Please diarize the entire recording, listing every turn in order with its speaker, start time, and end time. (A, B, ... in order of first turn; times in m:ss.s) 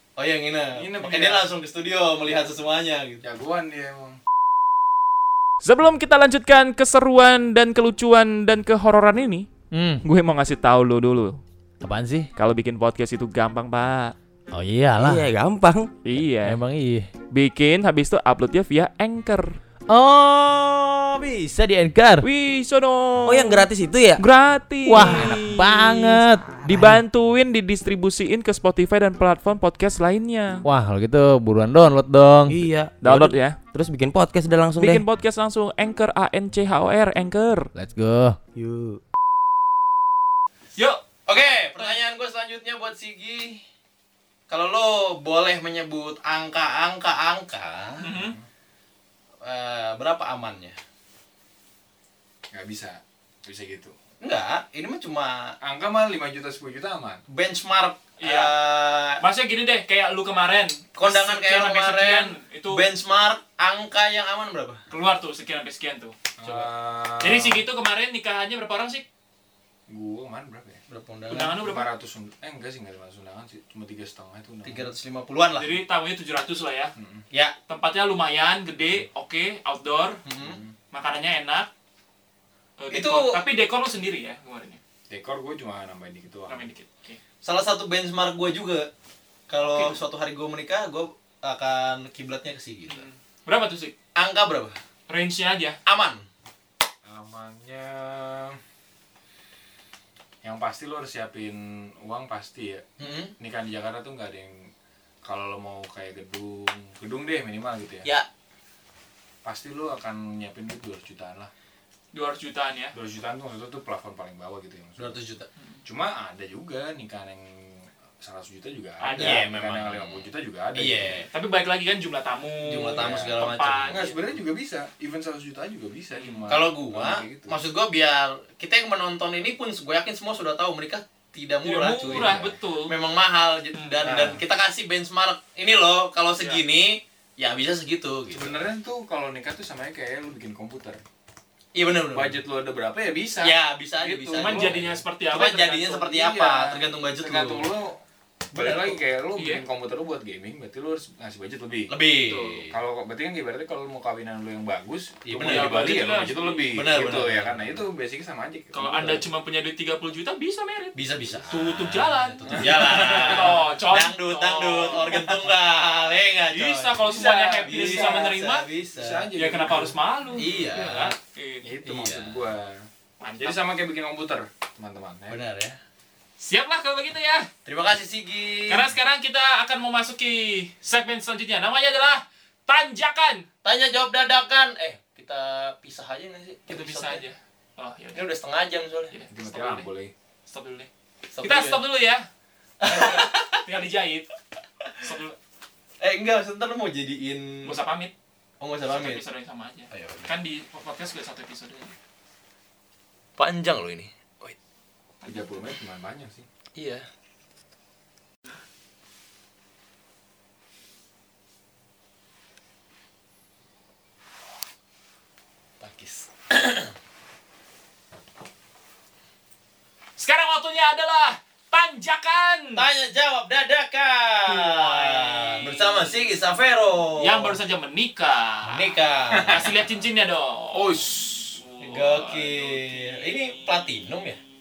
0:00.2-0:03.2 A
0:00.7-0:01.5 B
0:03.2-0:04.2 B
0:05.6-0:09.5 C
0:09.7-0:10.0 D
0:10.0-0:11.4 C
0:11.8-0:12.3 D
0:12.3-0:14.1 C
0:14.5-0:15.3 D
0:15.0-0:15.9 E
0:16.0-0:16.6 C
0:16.4-0:17.1 D
0:17.3-0:19.6 C
0:19.9-0:22.3 D
0:22.2-0:23.7 C
0:23.2-0:24.2 E
0:24.2-0:30.6 C
0:24.9-0:27.0 D
0:24.9-0:25.6 E
0:30.6-0:32.6 D
0:32.5-0:35.0 E
0:33.0-0:33.6 C
0:34.8-0:37.7 C
0:37.7-0:38.4 D
0:38.6-0:39.0 E
0:40.8-0:41.0 F
0:41.3-0:43.6 A
0:44.5-0:48.1 A
0:48.0-0:48.4 F
0:48.1-0:48.4 B
0:49.4-0:50.8 A
0:52.5-0:53.9 B
0:54.2-0:55.5 A
0:55.6-0:57.2 B
0:57.3-0:59.2 A
0:58.2-0:58.5 F
0:59.2-1:02.8 F
1:01.0-1:04.8 A
1:04.9-1:06.1 F
1:06.4-1:07.6 B
1:06.4-1:06.7 A
1:07.2-1:09.0 F
1:09.9-1:10.8 B
1:10.9-1:11.6 A
1:11.3-1:11.9 F
1:11.6-1:14.9 B
1:14.6-1:15.8 A
1:15.5-1:16.9 F
1:17.0-1:17.2 B
1:17.7-1:20.2 F
1:20.2-1:20.6 A
1:20.4-1:20.7 B
1:20.9-1:21.7 F
1:22.8-1:24.8 F
1:22.9-1:23.4 A
1:25.1-1:26.7 B
1:26.5-1:27.2 F
1:27.4-1:28.9 A
1:29.5-1:33.1 A
1:29.6-1:30.0 F
1:32.9-1:33.9 F
1:34.2-1:34.8 A
1:35.1-1:35.8 F
1:35.8-1:36.2 A
1:37.0-1:38.6 B
1:40.4-1:44.7 B
1:43.0-1:43.3 A
1:45.2-1:48.1 B
1:49.4-1:51.5 B
1:52.1-1:53.0 F
1:52.9-1:55.2 B
1:55.0-1:55.5 A
1:55.6-1:55.8 F
1:55.8-2:01.2 B
1:59.0-1:59.5 F
1:59.2-2:01.3 A
2:01.3-2:04.1 F
2:02.6-2:04.1 A
2:02.9-2:07.6 B
2:06.1-2:06.5 F
2:06.5-2:18.6 A
2:11.6-2:12.9 F
2:12.0-2:12.6 B
2:13.7-2:14.2 F
2:14.0-2:14.4 B
2:18.3-2:21.0 B
2:21.7-2:22.4 A
2:22.1-2:25.0 B
2:23.4-2:27.7 A
2:24.4-2:26.2 F
2:26.1-2:28.0 B
2:28.5-2:29.0 A
2:28.5-2:31.9 B
2:29.4-2:29.6 F
2:31.9-2:32.7 A
2:32.3-2:32.6 F
2:32.7-2:39.2 B
2:35.2-2:36.1 A
2:35.4-2:37.0 F
2:36.7-2:37.8 A
2:38.7-2:41.0 F
2:40.9-2:47.0 A
2:41.5-2:45.5 F
2:42.5-2:43.6 B
2:46.5-2:48.6 F
2:47.0-2:48.3 B
2:47.6-2:49.3 A
2:48.9-2:50.0 B
2:49.3-2:51.7 F
2:50.3-2:51.2 A
2:51.6-2:52.8 B
2:51.8-2:52.4 A
2:53.2-2:53.6 F
2:53.4-2:55.4 B
2:55.3-2:55.8 A
2:56.4-2:57.5 F
2:57.6-2:58.9 A
2:58.7-3:03.4 F
3:03.6-3:07.2 A
3:06.7-3:08.2 F
3:08.1-3:09.1 A
3:09.1-3:09.9 F
3:09.3-3:10.1 B
3:10.5-3:10.9 F
3:11.3-3:11.8 A
3:11.4-3:12.2 F
3:12.8-3:13.6 A
3:12.8-3:14.3 F
3:15.0-3:15.4 F
3:16.0-3:17.8 A
3:17.6-3:18.1 F
3:18.6-3:19.2 A
3:18.8-3:21.9 F
3:19.9-3:20.3 A
3:23.4-3:24.5 A
3:25.2-3:25.6 F
3:25.2-3:26.5 B
3:26.7-3:27.0 A
3:35.8-3:36.9 A
3:40.2-3:42.8 F
3:42.7-3:47.6 A
3:44.5-3:46.4 F
3:47.2-3:54.1 F
3:48.6-3:49.7 A
3:49.3-3:49.7 B
3:50.7-3:51.6 B
3:51.8-3:54.4 A